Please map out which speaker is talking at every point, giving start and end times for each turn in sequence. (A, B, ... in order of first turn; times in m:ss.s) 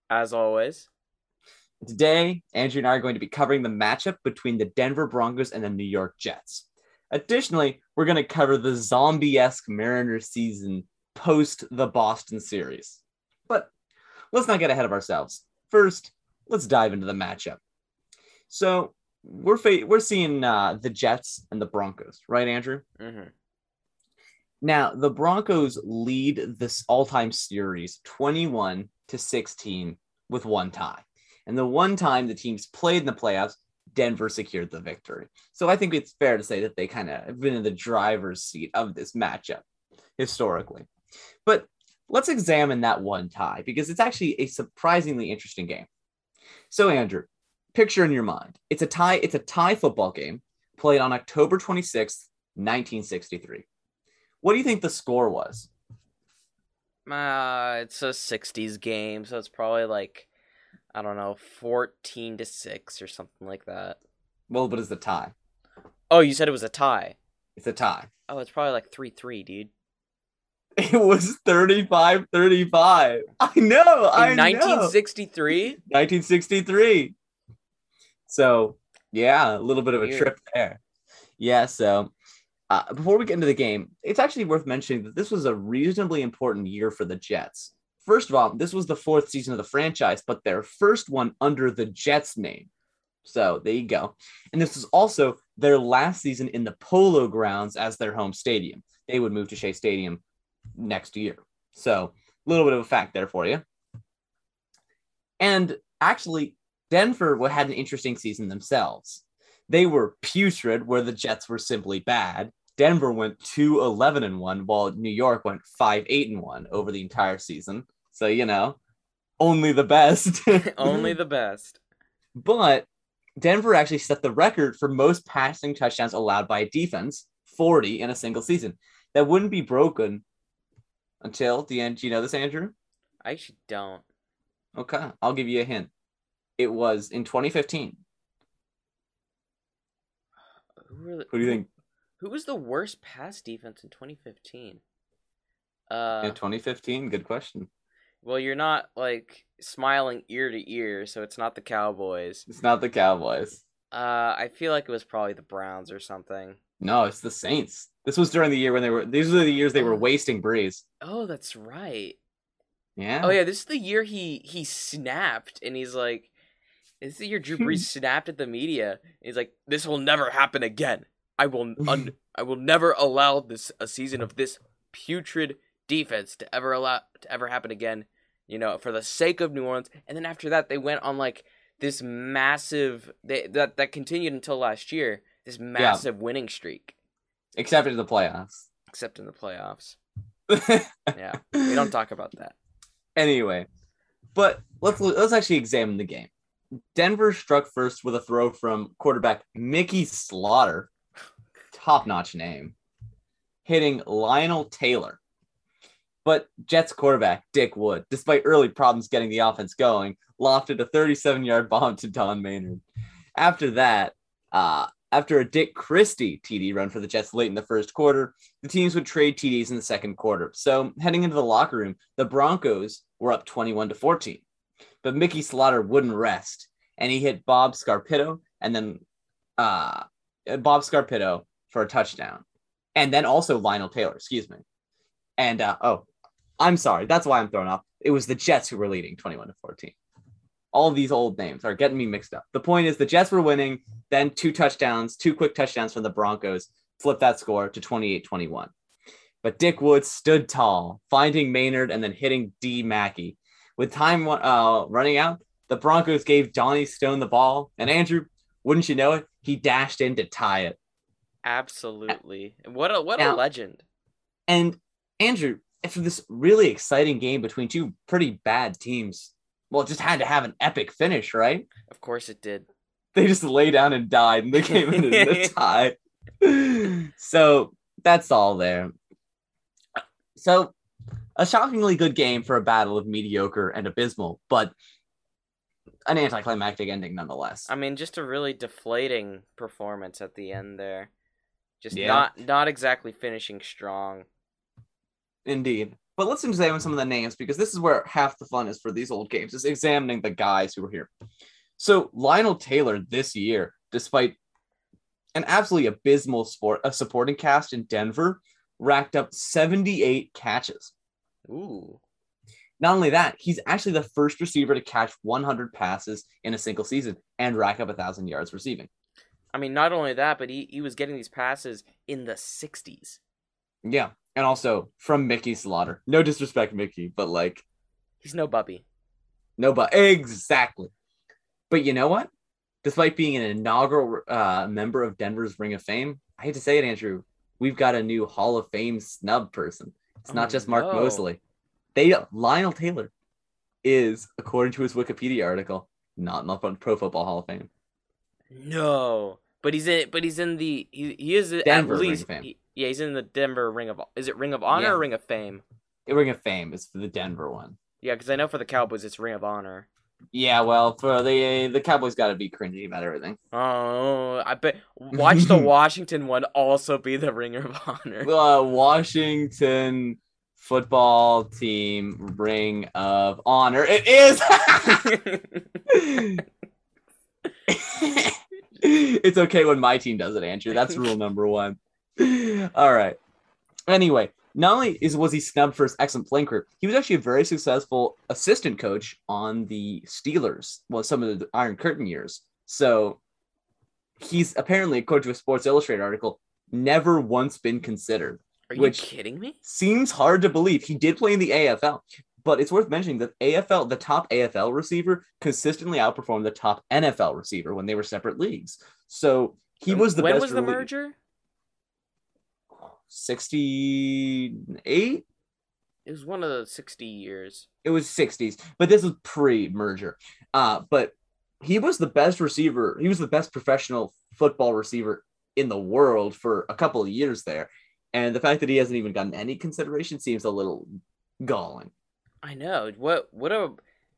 0:00.1-0:00.9 A
0:01.8-0:13.7 B
0:14.3-0:17.6 B
0:18.5-0:22.8 B
0:23.0-0:23.3 A
0:24.6-0:39.6 B
0:40.2-0:40.9 B
0:41.4-0:45.9 B
0:46.7-0:53.6 B
0:54.4-0:55.7 B
0:57.0-1:00.3 A
1:00.9-1:04.0 A
1:04.5-1:05.3 B
1:06.1-1:07.2 A
1:07.6-1:08.1 B
1:08.3-1:09.7 A
1:10.8-1:15.0 B
1:14.1-1:15.8 A
1:15.8-1:17.1 B
1:18.3-1:20.8 B
1:20.0-1:20.3 A
1:21.4-1:22.1 B
1:22.7-1:32.7 B
1:33.2-1:40.2 B
1:40.8-1:43.6 B
1:45.4-1:58.8 B
1:59.4-2:01.1 B
2:00.6-2:01.8 A
2:02.4-2:02.9 B
2:03.4-2:10.2 B
2:11.2-2:12.7 B
2:13.2-2:14.0 A
2:14.8-2:15.9 B
2:16.6-2:18.0 B
2:20.8-2:21.6 A
2:21.3-2:21.7 B
2:22.2-2:24.8 A
2:25.9-2:26.4 A
2:26.2-2:27.7 B
2:28.2-2:32.5 A
2:32.5-2:33.6 B
2:33.9-2:36.6 A
2:36.8-2:40.8 B
2:39.8-2:40.0 A
2:41.0-2:42.2 A
2:43.0-2:43.4 B
2:43.2-2:46.3 A
2:47.0-3:06.9 A
2:51.8-2:52.1 B
3:05.8-3:06.0 B
3:07.6-3:08.7 B
3:08.9-3:10.0 A
3:10.5-3:11.8 B
3:11.1-3:12.5 A
3:13.2-3:13.7 B
3:14.3-3:16.3 B
3:16.9-3:20.9 B
3:21.7-3:22.7 B
3:23.6-3:25.2 B
3:26.2-3:32.8 B
3:33.4-3:44.4 B
3:45.0-3:49.0 B
3:49.6-3:52.4 B
3:53.0-3:54.6 B
3:55.4-3:56.1 B
3:56.6-3:59.9 B
4:00.7-4:08.7 B
4:09.4-4:20.8 B
4:21.4-4:23.8 A
4:24.5-4:31.7 B
4:31.9-4:32.7 A
4:33.1-4:38.9 B
4:34.6-4:35.5 A
4:40.4-4:40.7 B
4:41.4-4:44.7 B
4:46.0-4:47.7 B
4:47.7-4:51.1 A
4:51.8-4:54.2 A
4:51.9-4:52.3 B
4:55.4-5:01.1 B
5:01.8-5:04.4 B
5:05.3-5:10.9 B
5:11.5-5:12.0 A
5:12.8-5:18.9 B
5:19.5-5:23.2 A
5:23.8-5:27.6 B
5:28.2-5:28.8 A
5:29.6-5:30.9 B
5:31.7-5:32.3 B
5:32.8-5:41.4 B
5:40.3-5:41.2 A
5:41.9-5:43.1 B
5:43.8-5:47.7 B
5:48.5-5:55.6 A
5:51.6-5:52.5 B
5:54.7-5:55.0 B
5:56.1-5:57.8 B
5:58.0-5:59.9 A
6:00.3-6:03.4 B
6:03.5-6:08.3 A
6:05.1-6:05.6 B
6:08.2-6:15.2 B
6:15.0-6:15.6 A
6:15.9-6:16.4 B
6:17.7-6:23.2 B
6:23.9-6:33.2 B
6:34.2-6:39.1 B
6:38.7-6:39.6 A
6:39.6-6:50.9 B
6:49.9-6:51.2 A
6:53.0-6:55.2 B
6:56.0-6:57.7 A
6:57.8-7:10.9 B
7:11.4-7:11.9 B
7:12.4-7:13.8 A